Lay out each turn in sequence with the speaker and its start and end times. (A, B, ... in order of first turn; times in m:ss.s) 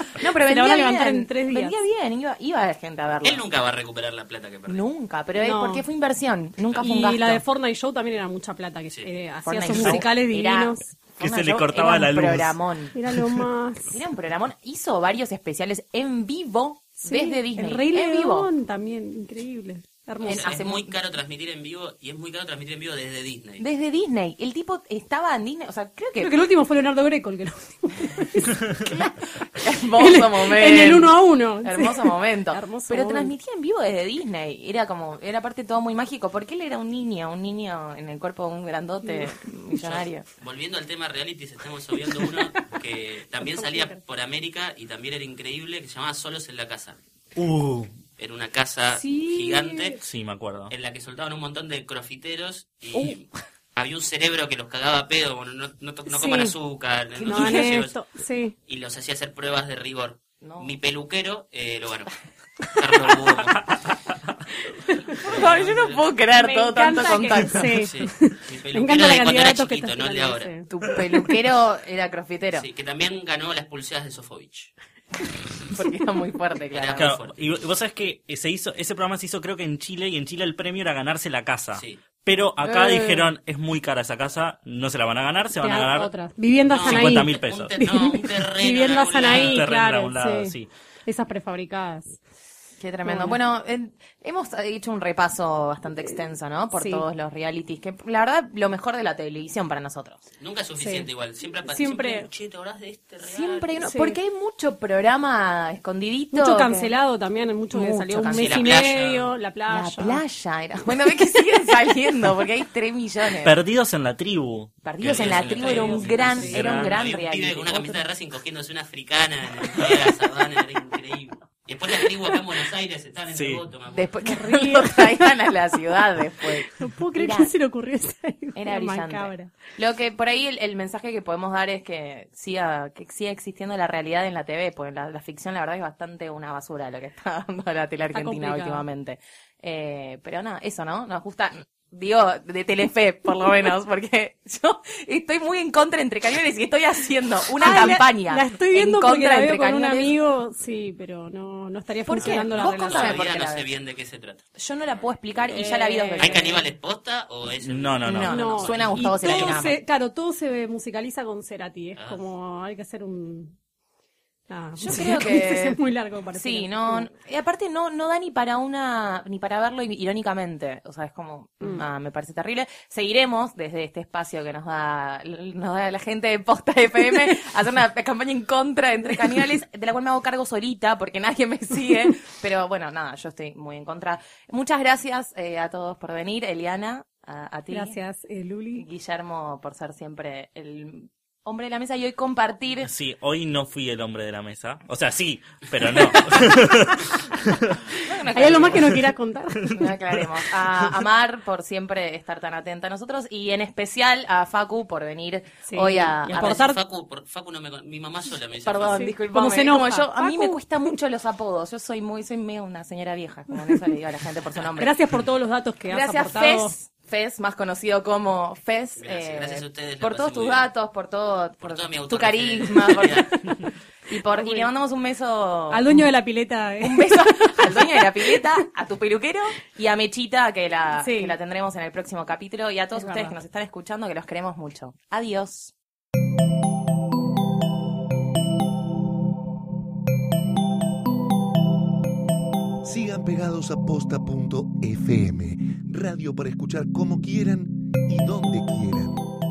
0:00.2-0:03.4 A
0:00.4-0:01.8 B
0:03.2-0:04.8 C
0:04.7-0:07.4 A
0:05.4-0:05.8 B
0:06.8-0:11.0 B
0:09.4-0:12.9 A
0:11.2-0:12.6 D
0:12.9-0:14.0 B
0:13.1-0:13.4 D
0:13.9-0:18.5 A
0:17.0-0:20.6 B
0:20.2-0:21.0 A
0:20.3-0:23.6 C
0:23.6-0:26.3 A
0:26.2-0:29.0 B
0:28.8-0:40.2 A
0:29.9-0:33.3 B
0:39.8-0:47.0 C
0:42.0-0:42.6 A
0:43.4-0:44.0 B
0:47.4-0:47.9 D
0:48.2-0:50.0 C
0:48.9-0:50.0 B
0:50.0-0:50.7 D
0:50.7-0:58.0 C
0:56.1-0:56.5 B
0:57.2-0:58.5 B
0:57.3-0:57.7 A
0:58.7-1:02.1 C
1:00.4-1:00.8 A
1:02.7-1:03.8 C
1:04.8-1:05.2 B
1:05.1-1:06.1 C
1:05.2-1:07.9 A
1:06.3-1:11.3 B
1:07.8-1:10.5 C
1:10.7-1:12.7 A
1:12.5-1:14.7 C
1:15.7-1:17.1 A
1:16.7-1:17.5 C
1:17.0-1:26.1 D
1:21.7-1:22.0 C
1:22.6-1:23.2 A
1:25.6-1:30.5 B
1:26.7-1:29.6 C
1:26.7-1:27.8 D
1:29.2-1:30.7 D
1:31.0-1:32.2 B
1:32.8-1:40.2 A
1:33.0-1:33.4 B
1:36.7-1:37.0 B
1:40.4-1:43.7 C
1:40.8-1:41.1 B
1:41.6-1:42.3 B
1:43.2-1:46.9 A
1:43.8-1:44.2 B
1:46.3-1:50.2 B
1:47.7-1:49.0 A
1:48.3-1:49.3 C
1:49.7-1:53.6 A
1:53.4-1:57.0 D
1:54.8-1:58.0 A
1:55.0-2:04.1 C
1:55.5-1:56.8 B
2:03.3-2:03.6 D
2:03.9-2:07.5 A
2:04.2-2:05.3 B
2:06.7-2:09.5 B
2:08.6-2:30.2 A
2:18.1-2:18.8 B
2:27.6-2:33.2 B
2:32.0-2:33.7 A
2:32.2-2:34.4 C
2:34.6-2:36.6 A
2:35.4-2:35.6 C
2:35.5-2:36.5 B
2:36.2-2:39.6 C
2:37.6-2:38.3 D
2:38.0-2:39.8 A
2:38.2-2:43.5 B
2:44.5-2:47.1 B
2:44.8-2:45.8 A
2:46.3-3:08.0 A
3:07.7-3:08.8 B
3:08.7-3:12.9 A
3:12.8-3:17.8 D
3:18.0-3:19.0 A
3:18.3-3:19.8 B
3:19.6-3:20.9 D
3:19.7-3:26.6 A
3:25.7-3:26.8 B
3:26.3-3:29.1 C
3:28.6-3:34.9 A
3:28.8-3:30.9 B
3:34.8-3:36.7 B
3:35.9-3:43.6 A
3:39.0-3:40.7 C
3:41.6-3:43.6 C
3:44.1-3:46.1 A
3:44.3-3:44.7 B
3:45.7-3:48.4 B
3:46.8-3:55.7 A
3:51.0-3:51.4 B
3:52.9-3:53.4 B
4:02.8-4:09.2 E